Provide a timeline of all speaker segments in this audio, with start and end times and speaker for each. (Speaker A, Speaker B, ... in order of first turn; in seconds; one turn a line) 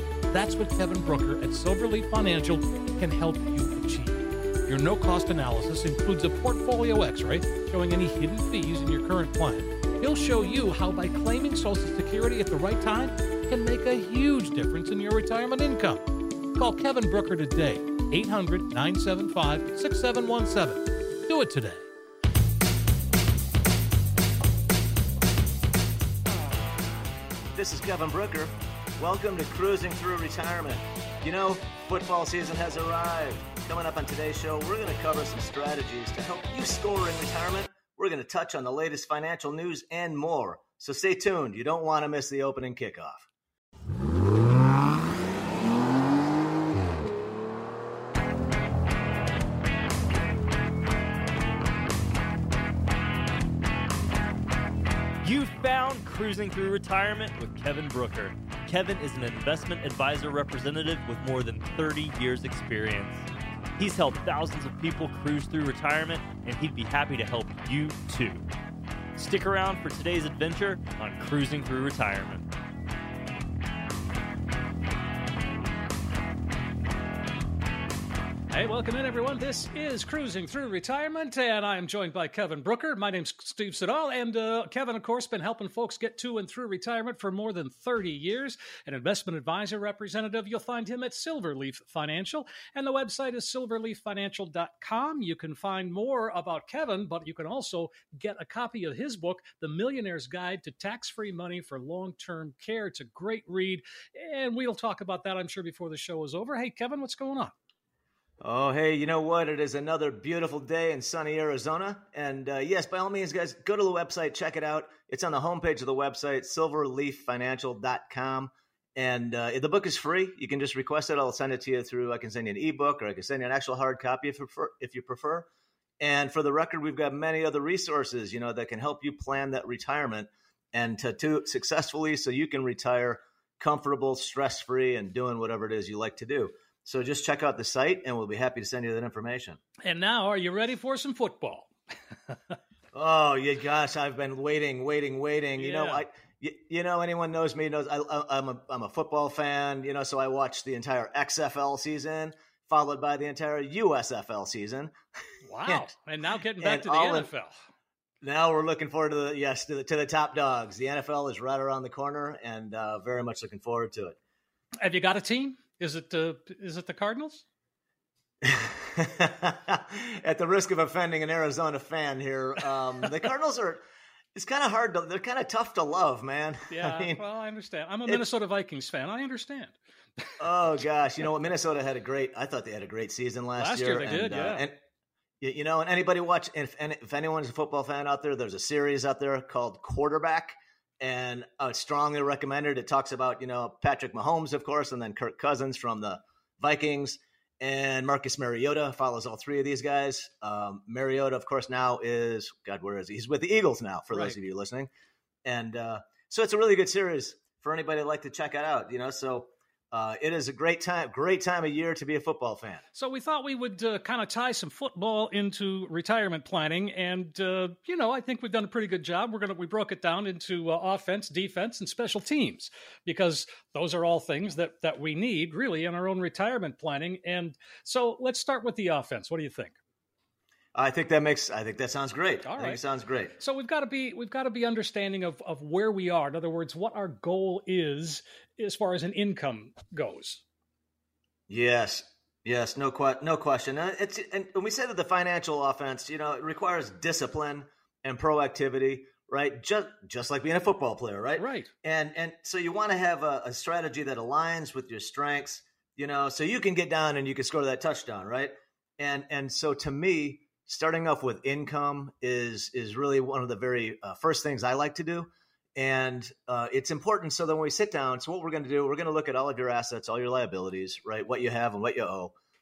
Speaker A: 0.3-21.9
Speaker B: 27.5-43.3
Speaker C: 55.2-63.3
Speaker C: 63.8-68.5
Speaker C: 69.2-72.5
Speaker A: 78.5-107.5
Speaker B: 108.4-125.5
Speaker B: 126.0-139.6
Speaker A: 139.8-141.7
Speaker A: 142.3-142.6
Speaker B: 142.9-154.9
Speaker A: 145.6-146.1
Speaker A: 155.5-157.6
Speaker B: 156.6-157.3
Speaker B: 158.2-164.2
Speaker A: 164.8-167.4
Speaker B: 168.4-173.8
Speaker B: 174.3-177.2
Speaker A: 176.7-180.3
Speaker B: 180.4-184.7
Speaker A: 183.6-184.7
Speaker B: 185.4-204.9
Speaker B: 205.4-212.8
Speaker A: 212.9-229.8
Speaker B: 230.8-233.3
Speaker A: 232.4-232.8
Speaker A: 233.4-240.4
Speaker B: 241.5-272.3
Speaker A: 251.4-251.7